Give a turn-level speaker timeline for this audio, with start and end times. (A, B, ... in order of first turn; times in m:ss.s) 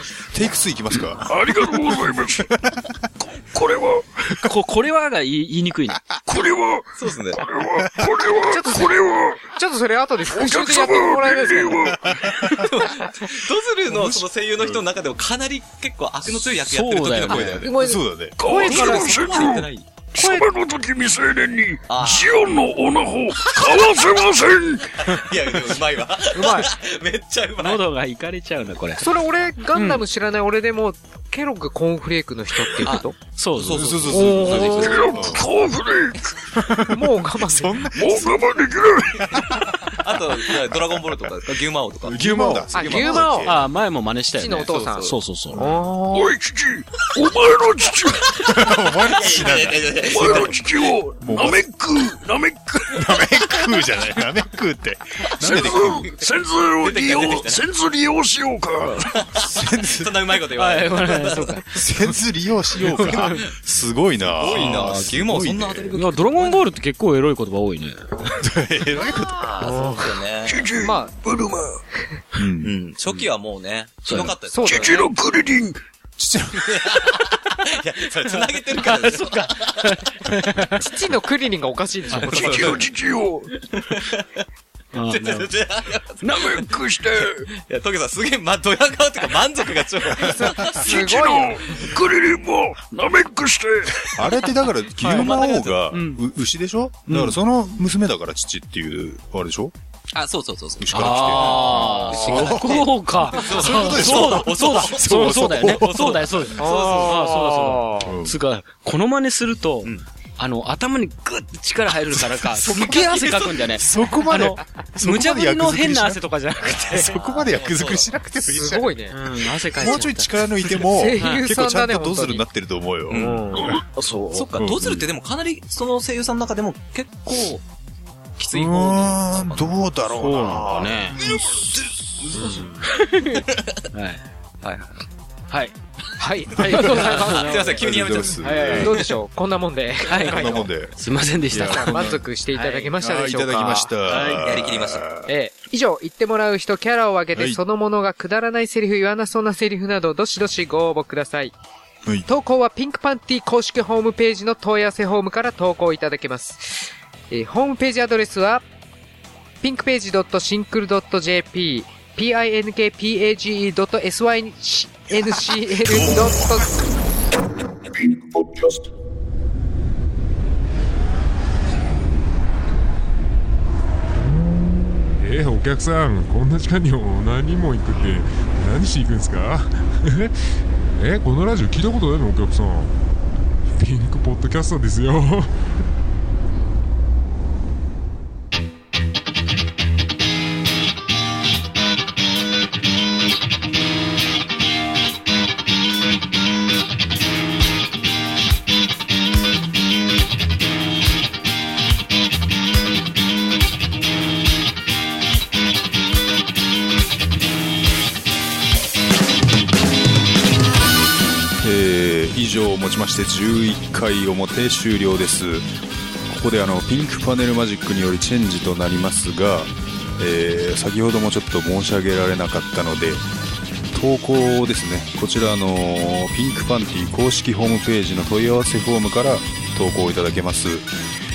0:00.2-0:02.9 A
0:01.2-0:02.5 B
0:03.2-0:04.1 B
0:04.2-0:06.0 C
0:06.3-0:09.5 B
0:07.0-0:07.4 D
0:08.4-0:12.0 E
0:10.3-0:12.0 B
0:12.0-0:12.7 A
0:12.4-0:17.7 D
0:13.9-0:14.8 A
0:16.7-0:17.6 C
0:17.3-0:19.6 E
0:17.5-0:18.4 A
0:18.4-0:25.0 B
0:18.5-0:19.9 D
0:20.2-0:20.4 E
0:21.9-0:22.4 D
0:24.9-0:27.9 D
0:26.3-0:26.7 E
0:27.6-0:29.1 C
0:29.0-0:33.2 E
0:29.7-0:30.0 C
0:32.8-0:34.3 C
0:33.6-0:35.2 D
0:33.6-0:35.4 A
0:34.1-0:35.3 E
0:34.7-0:36.3 B
0:36.5-0:38.5 A
0:36.8-0:37.9 E
0:38.0-0:39.5 B
0:39.2-0:39.8 A
0:39.9-0:42.2 D
0:42.0-0:43.7 A
0:42.2-0:45.6 C
0:42.7-0:43.6 E
0:44.4-0:46.3 E
0:44.7-0:45.1 D
0:46.1-0:48.4 B
0:48.4-0:50.6 A
0:49.0-0:50.6 D
0:50.0-0:53.7 B
0:51.2-0:51.6 A
0:52.9-0:56.1 A
0:55.4-0:59.2 B
0:55.5-0:57.6 D
0:59.1-1:01.6 D
0:59.3-1:00.1 A
1:00.6-1:01.8 C
1:01.7-1:05.9 A
1:02.8-1:03.4 C
1:03.0-1:03.5 D
1:04.3-1:06.7 D
1:05.9-1:08.0 C
1:08.2-1:09.4 A
1:09.2-1:10.7 D
1:09.6-1:10.2 E
1:10.4-1:11.8 B
1:10.8-1:11.1 E
1:12.3-1:13.1 A
1:12.6-1:15.1 D
1:14.1-1:14.3 C
1:14.1-1:15.8 B
1:14.5-1:15.1 E
1:16.2-1:17.1 A
1:16.6-1:20.0 D
1:18.8-1:20.8 C
1:20.8-1:22.8 E
1:22.1-1:22.8 D
1:22.3-1:23.6 B
1:23.6-1:24.4 D
1:24.9-1:25.5 C
1:25.1-1:26.7 D
1:26.2-1:26.6 C
1:26.3-1:27.5 B
1:27.5-1:31.1 D
1:30.1-1:31.9 E
1:30.7-1:34.1 B
1:34.0-1:39.7 A
1:35.0-1:35.4 C
1:35.0-1:35.9 D
1:35.9-1:36.2 C
1:37.1-1:37.4 C
1:40.1-1:47.4 D
1:40.8-1:46.5 A
1:40.9-1:57.2 C
1:46.6-1:48.1 E
1:48.0-1:48.4 A
1:52.1-1:59.0 A
1:53.0-1:53.7 D
1:56.9-1:58.1 D
1:58.5-1:59.2 E
1:59.1-2:00.2 C
1:59.6-2:03.8 A
1:59.7-2:00.1 E
2:00.8-2:02.4 E
2:01.2-2:01.4 C
2:03.1-2:03.7 E
2:03.1-2:03.4 D
2:04.0-2:04.4 C
2:04.3-2:07.6 D
2:04.6-2:05.1 A
2:08.4-2:09.8 D
2:08.5-2:11.6 A
2:10.1-2:11.2 C
2:11.2-2:12.6 D
2:12.2-2:12.6 A
2:12.3-2:12.6 E
2:12.8-2:14.2 C
2:14.6-2:15.0 D
2:15.5-2:15.8 C
2:16.2-2:17.9 E
2:16.4-2:19.0 C
2:16.7-2:19.1 D
2:17.8-2:19.0 A
2:18.7-2:20.7 E
2:20.0-2:22.9 C
2:20.1-2:21.0 A
2:21.5-2:22.2 A
2:21.5-2:23.9 E
2:23.0-2:25.3 A
2:24.1-2:24.4 C
2:24.2-2:25.1 D
2:25.3-2:31.6 E
2:27.3-2:27.6 A
2:32.3-2:38.6 E
2:39.6-2:46.8 E
2:45.9-2:46.3 A
2:55.2-3:00.3 F
3:00.9-3:02.9 F
3:03.8-3:05.5 F
3:31.6-3:35.7 A
3:36.3-3:43.2 A
3:43.9-3:50.9 A